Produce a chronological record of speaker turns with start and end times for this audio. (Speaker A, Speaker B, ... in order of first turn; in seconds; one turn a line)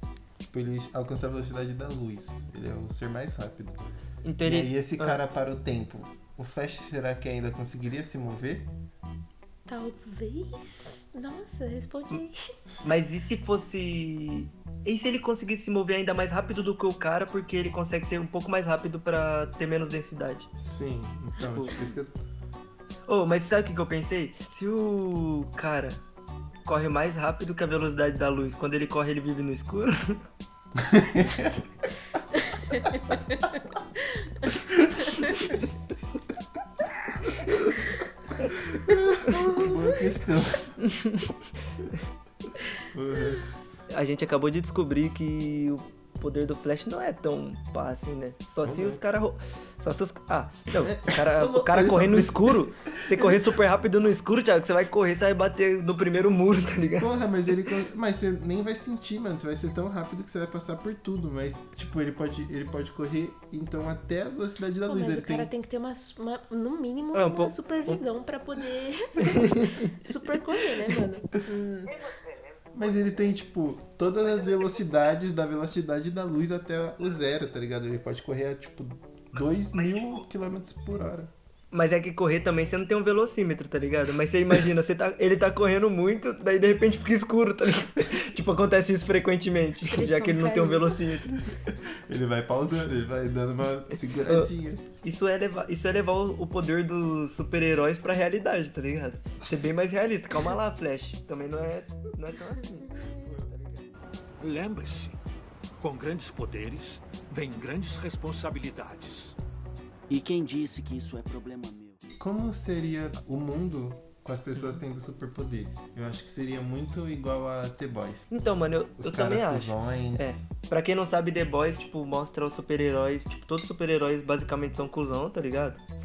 Speaker A: 0.4-3.9
Speaker B: 4.2-5.2
Speaker A: 4.4-8.7
Speaker C: 9.7-12.5
Speaker B: 12.8-20.5
Speaker A: 20.7-22.2
Speaker B: 21.4-21.8
Speaker B: 23.1-26.0
Speaker B: 26.7-30.2
Speaker A: 30.8-31.7
Speaker C: 32.5-33.5
Speaker C: 34.2-34.6
Speaker C: 35.1-35.4
Speaker A: 38.7-40.8
Speaker B: 40.9-41.3
Speaker A: 42.8-43.5
Speaker B: 43.9-57.1
Speaker A: 48.6-49.0
Speaker A: 50.8-53.5
Speaker A: 57.0-65.5
Speaker C: 64.9-72.0
Speaker B: 67.1-68.0
Speaker B: 69.2-70.0
Speaker A: 72.7-81.3
Speaker B: 81.7-91.4
Speaker C: 89.9-91.0
Speaker A: 91.5-94.8
Speaker B: 95.0-103.8
Speaker D: 104.4-105.2
Speaker D: 105.8-109.4
Speaker E: 110.1-112.0
Speaker A: 112.2-118.3
Speaker B: 114.5-114.8
Speaker B: 118.3-125.8
Speaker A: 119.0-120.5